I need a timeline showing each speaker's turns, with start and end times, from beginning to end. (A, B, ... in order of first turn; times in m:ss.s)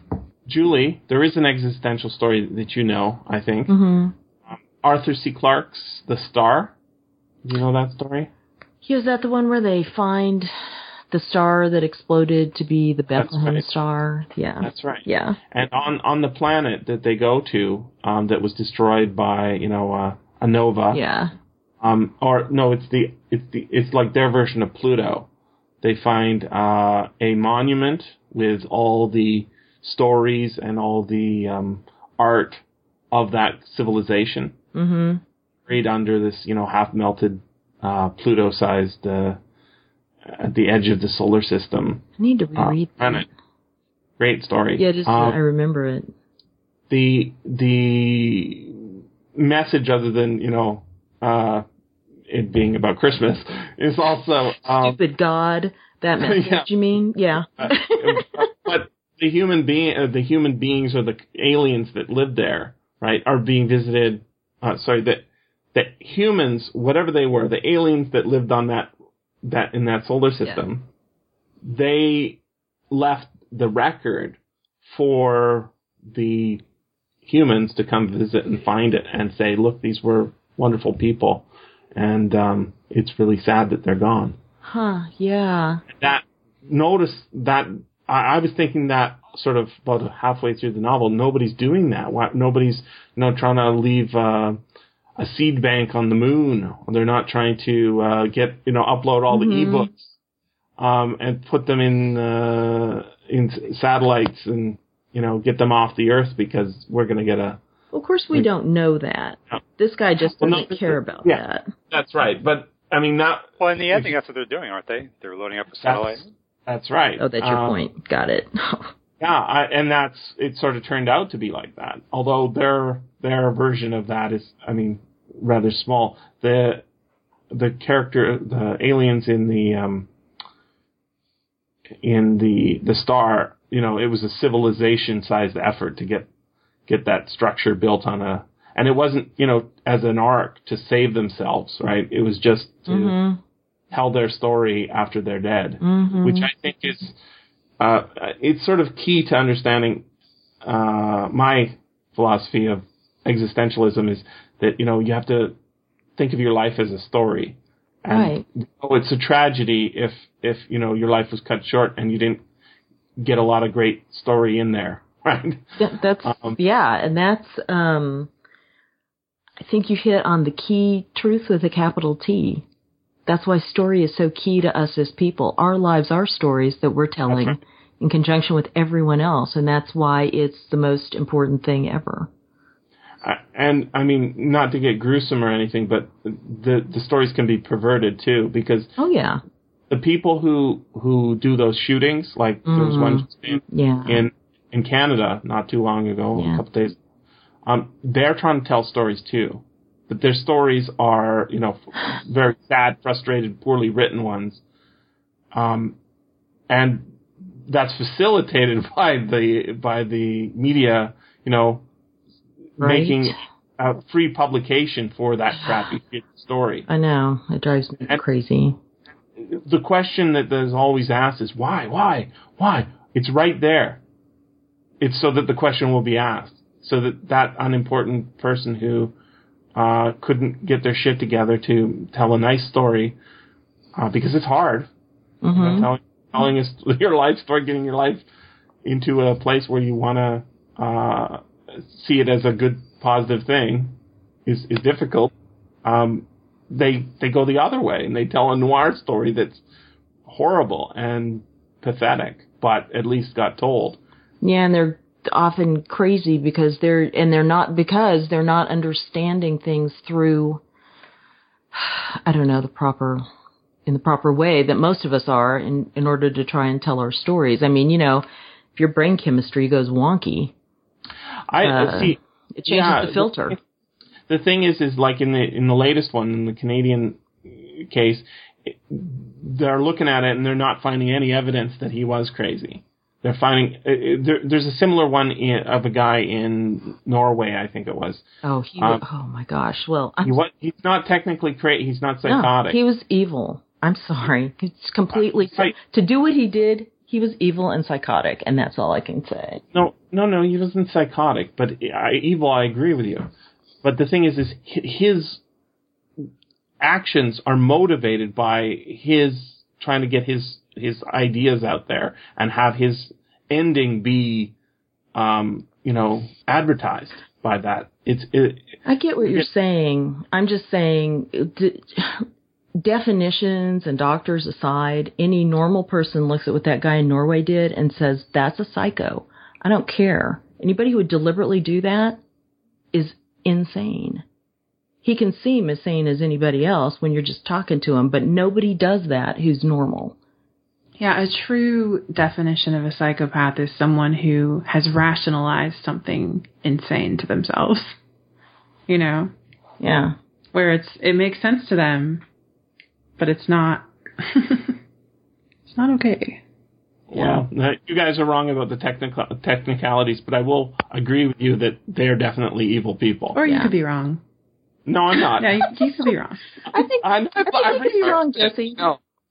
0:00.4-0:03.7 A
0:03.7-0:04.1 B
0:04.5-0:06.7 A
0:07.4-0:08.3 A
0:08.8-0:10.5 B
0:11.1-0:15.4 B
0:13.1-0:13.7 A
0:14.6-0:21.0 A
0:20.9-0:21.3 B
0:21.8-0:25.3 A
0:25.8-0:34.6 A
0:34.7-0:35.2 B
0:35.7-0:39.4 A
0:40.2-0:42.0 A
0:42.2-0:43.3 B
0:42.6-0:43.3 A
0:44.2-0:45.4 A
0:44.8-0:46.1 B
0:46.9-0:51.6 A
0:52.3-0:55.0 A
0:54.6-0:58.5 B
0:56.2-0:56.7 A
0:57.6-1:08.9 A
1:09.4-1:10.9 A
1:11.6-1:12.4 A
1:12.9-1:16.6 A
1:17.2-1:24.4 A
1:24.6-1:25.8 B
1:25.9-1:34.6 A
1:35.2-1:40.1 A
1:39.3-1:39.9 B
1:40.8-1:47.6 A
1:47.9-1:51.7 B
1:50.4-1:54.1 A
1:53.6-1:56.3 C
1:55.8-1:57.8 A
1:57.2-1:58.9 B
1:59.2-2:06.8 A
2:07.5-2:10.1 A
2:12.0-2:16.3 A
2:16.9-2:23.2 A
2:22.9-2:23.4 B
2:23.9-2:27.1 A
2:25.8-2:26.5 B
2:27.8-2:30.0 A
2:30.6-2:35.6 A
2:36.2-2:42.4 A
2:38.1-2:38.4 B
2:43.2-2:46.6 A
2:45.8-2:48.3 B
2:49.6-2:52.6 B
2:53.3-3:02.3 B
2:57.3-2:57.6 A
3:03.2-3:08.9 A
3:09.0-3:09.4 B
3:09.9-3:17.0 A
3:12.7-3:14.3 B
3:16.4-3:16.6 B
3:17.6-3:24.6 A
3:25.5-3:26.0 A
3:26.7-3:27.1 A
3:27.6-3:31.8 A
3:32.8-3:36.9 A
3:32.8-3:33.4 B
3:36.9-3:38.8 B
3:39.4-3:44.0 A
3:45.0-3:49.1 A
3:49.7-3:53.2 A
3:54.0-3:54.9 A
3:55.4-3:55.9 B
3:55.5-3:58.2 A
3:58.8-4:04.0 A
4:04.4-4:05.3 A
4:05.8-4:09.6 A
4:10.3-4:14.0 A
4:14.4-4:20.6 B
4:21.7-4:23.2 B
4:23.9-4:30.5 B
4:31.5-4:33.6 A
4:31.6-4:33.6 B
4:34.3-4:48.2 A
4:48.4-4:50.4 B
4:50.2-4:52.8 A
4:52.3-4:59.6 B
4:55.1-4:55.7 A
4:59.7-5:03.3 A
5:03.8-5:05.4 A
5:06.8-5:14.5 A
5:15.1-5:19.5 A
5:18.9-5:32.2 B
5:32.9-5:34.2 B
5:35.0-5:40.1 B
5:41.0-5:48.0 D
5:48.9-5:49.3 D
5:49.8-5:50.1 B
5:50.5-5:52.2 D
5:53.2-5:54.7 D
5:55.7-5:56.4 D
5:57.1-6:03.4 A
5:57.1-5:57.4 B
6:03.3-6:04.2 D
6:03.4-6:03.7 B
6:04.9-6:05.7 A
6:05.4-6:06.5 D
6:06.7-6:08.8 B
6:07.0-6:09.0 A